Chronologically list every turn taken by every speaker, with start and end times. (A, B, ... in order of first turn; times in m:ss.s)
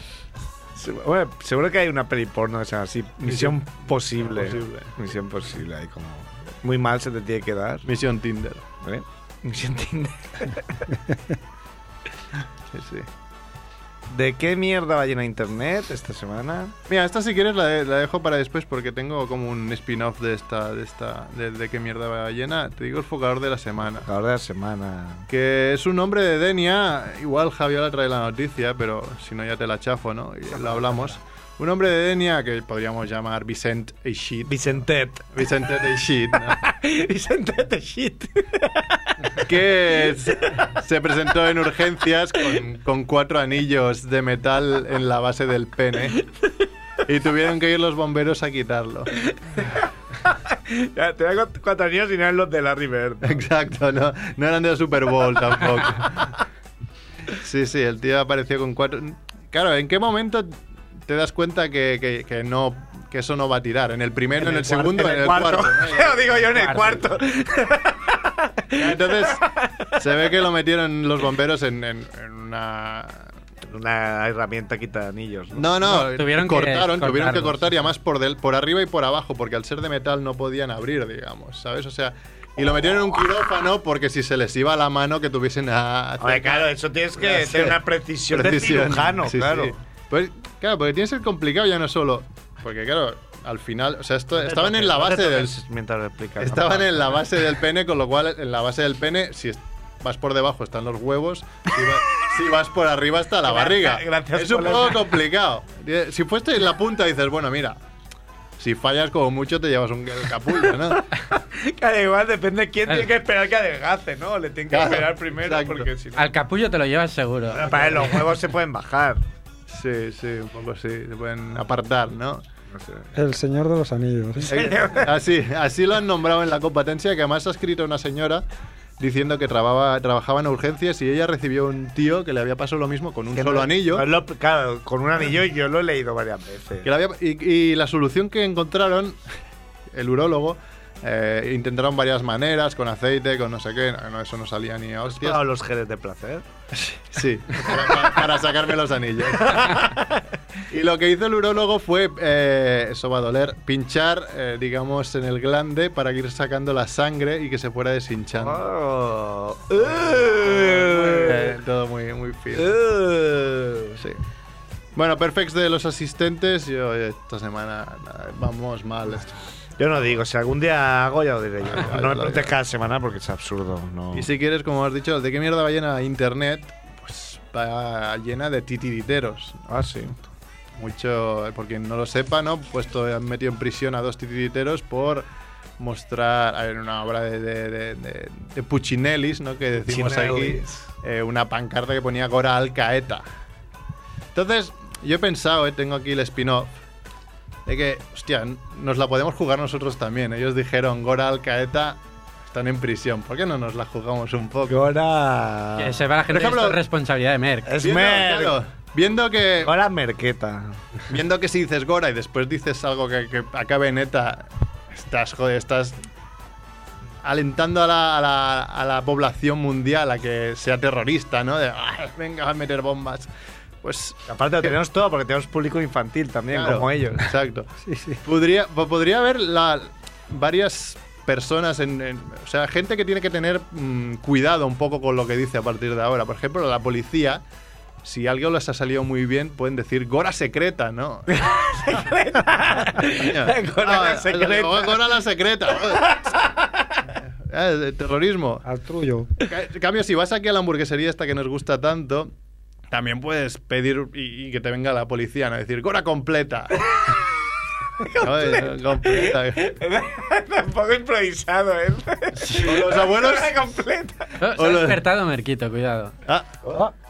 0:00.8-0:07.9 A
0:03.2-0:05.0 B
0:07.8-0:08.7 B
0:08.8-0:10.9 A
0:12.7-0:13.1 B
0:14.1-0:16.8 A
0:16.9-0:24.1 B
0:24.1-0:25.3 A
0:25.3-0:34.8 B
0:34.5-0:35.3 A
0:35.3-0:36.6 B
0:36.5-0:39.4 A
0:39.4-0:46.2 B
0:47.0-0:49.1 B
0:49.6-0:53.4 A
0:53.2-0:56.4 B
0:57.3-1:07.0 B
1:04.4-1:10.0 A
1:06.6-1:06.9 C
1:08.7-1:13.3 B
1:13.7-1:15.7 A
1:15.6-1:35.6 B
1:15.8-1:17.6 C
1:26.2-1:29.8 A
1:34.4-1:37.2 A
1:36.4-1:47.8 B
1:43.4-1:45.2 A
1:48.6-1:51.0 B
1:51.2-1:56.3 A
1:54.7-1:55.9 B
1:56.2-1:58.2 C
1:57.5-1:59.2 A
1:59.7-2:02.4 B
2:02.7-2:03.1 A
2:03.1-2:04.8 D
2:04.4-2:05.1 A
2:04.5-2:08.4 B
2:09.0-2:14.1 B
2:13.4-2:16.9 A
2:16.8-2:19.2 B
2:19.9-2:25.4 B
2:25.1-2:26.4 A
2:26.7-2:30.0 B
2:29.5-2:30.1 A
2:30.7-2:38.6 B
2:38.4-2:41.6 A
2:39.8-2:42.8 B
2:42.6-2:44.0 A
2:45.0-2:49.4 B
2:49.8-2:54.3 A
2:51.7-2:52.5 B
2:54.1-2:59.6 B
2:59.7-3:00.3 A
3:00.8-3:05.3 B
3:05.8-3:13.2 B
3:09.8-3:10.9 A
3:14.3-3:16.8 B
3:17.7-3:24.9 B
3:24.7-3:26.1 A
3:25.8-3:27.7 C
3:26.3-3:26.8 B
3:27.6-3:28.6 A
3:27.8-3:29.7 B
3:29.6-3:30.8 A
3:31.1-3:36.0 B
3:37.2-3:43.3 B
3:43.8-3:44.7 B
3:44.3-3:47.3 A
3:46.5-3:47.7 B
3:47.8-3:48.2 D
3:48.2-3:57.4 B
3:58.0-4:01.7 B
4:01.4-4:05.1 A
4:03.0-4:06.2 B
4:05.8-4:07.0 A
4:07.4-4:08.6 B
4:08.6-4:09.3 D
4:09.4-4:12.3 B
4:12.9-4:17.0 B
4:18.0-4:24.3 A
4:18.2-4:19.7 B
4:22.5-4:23.6 B
4:24.4-4:26.2 C
4:24.6-4:25.0 B
4:26.3-4:26.5 B